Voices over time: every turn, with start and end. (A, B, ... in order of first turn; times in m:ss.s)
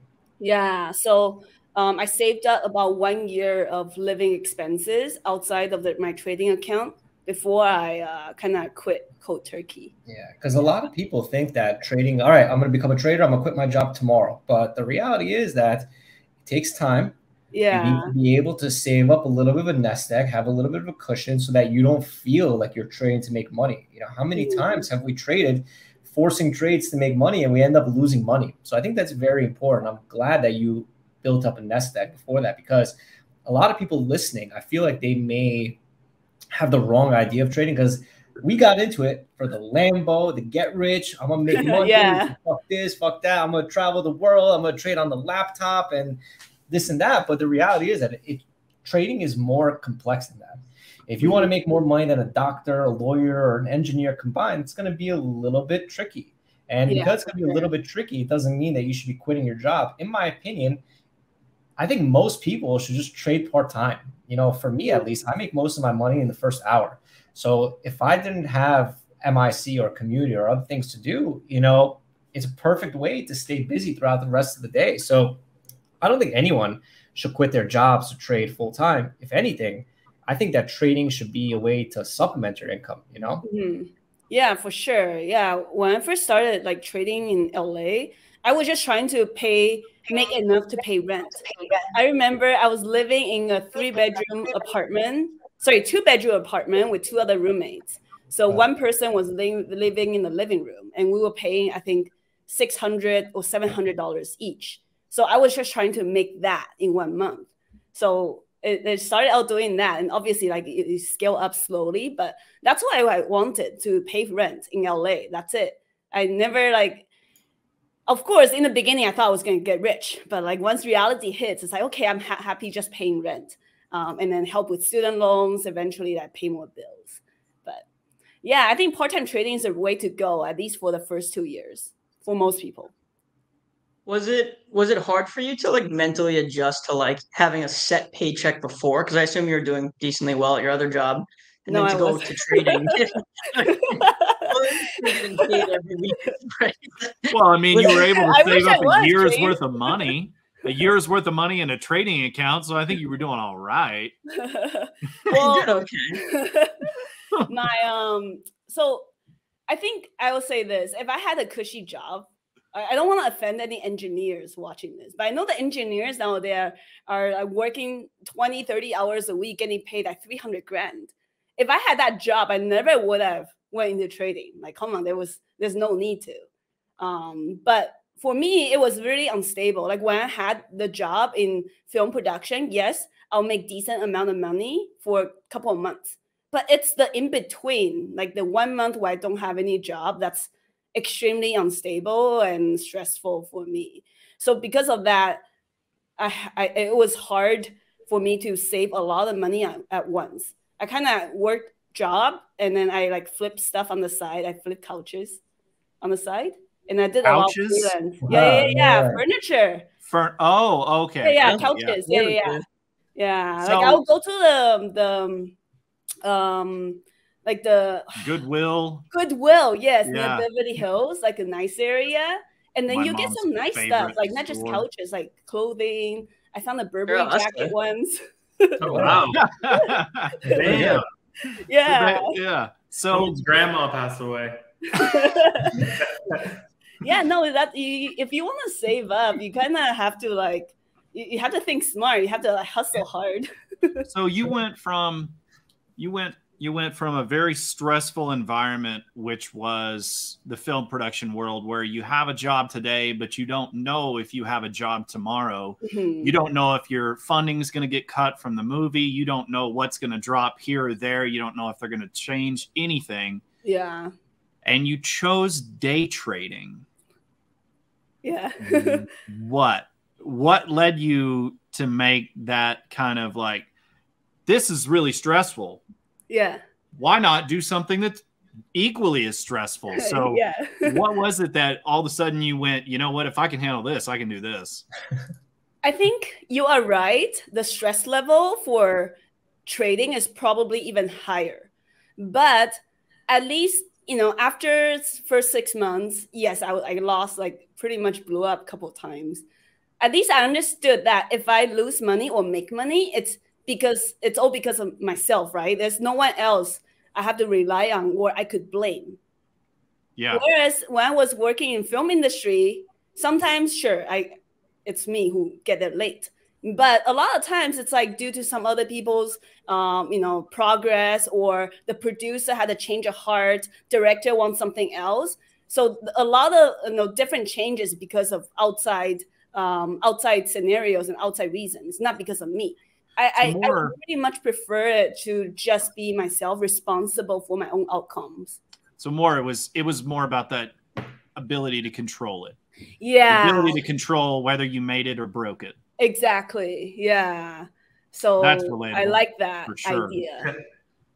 0:00.4-0:09.9 A
0:10.1-0:15.9 B
0:16.4-0:17.1 B
0:17.5-0:18.1 A
0:17.7-0:35.8 B
0:24.4-0:24.8 A
0:36.5-1:00.8 B
0:41.5-0:42.3 A
0:51.2-0:51.5 A
0:56.9-0:57.7 A
1:01.8-1:15.4 B
1:16.0-1:23.4 B
1:23.4-1:57.1 A
1:58.1-2:07.8 A
2:08.4-2:12.9 A
2:14.0-2:28.0 C
2:21.7-2:23.0 A
2:23.6-2:25.7 A
2:27.3-2:34.1 D
2:27.8-2:30.1 A
2:34.3-2:36.9 A
2:35.3-2:36.2 C
2:37.5-2:39.0 A
2:39.7-2:56.4 A
2:57.0-3:15.4 A
3:16.2-3:25.4 A
3:26.0-3:29.9 A
3:27.2-3:27.9 D
3:28.2-3:29.2 B
3:30.1-3:32.0 D
3:31.2-3:32.6 A
3:31.4-3:32.6 C
3:33.2-3:35.5 A
3:33.6-3:34.0 D
3:36.2-3:38.3 A
3:38.2-3:39.1 D
3:39.1-3:49.2 A
3:40.0-3:40.5 D
3:42.9-3:44.8 D
3:47.1-3:47.7 C
3:48.8-3:49.4 E
3:48.9-3:49.2 B
3:49.3-3:53.4 D
3:49.7-3:51.0 A
3:50.5-3:51.0 E
3:51.6-3:52.4 A
3:53.1-3:54.6 E
3:54.9-3:55.9 A
3:55.8-3:56.5 E
3:57.0-4:04.0 A
4:04.1-4:05.4 D
4:06.0-4:23.4 D
4:15.8-4:16.3 A
4:23.6-4:24.1 A
4:24.6-4:26.8 D
4:28.2-4:29.0 A
4:28.6-4:33.7 D
4:34.4-4:35.8 D
4:36.3-4:36.6 A
4:37.0-4:44.8 D
4:40.0-4:41.0 A
4:45.8-4:59.4 A
5:00.0-5:09.2 A
5:10.2-5:10.4 D
5:10.3-5:38.6 A
5:33.4-5:34.0 D
5:39.0-5:40.8 D
5:41.3-5:42.6 D
5:43.0-5:43.8 A
5:43.3-5:45.7 D
5:46.0-5:50.5 A
5:48.4-5:50.2 D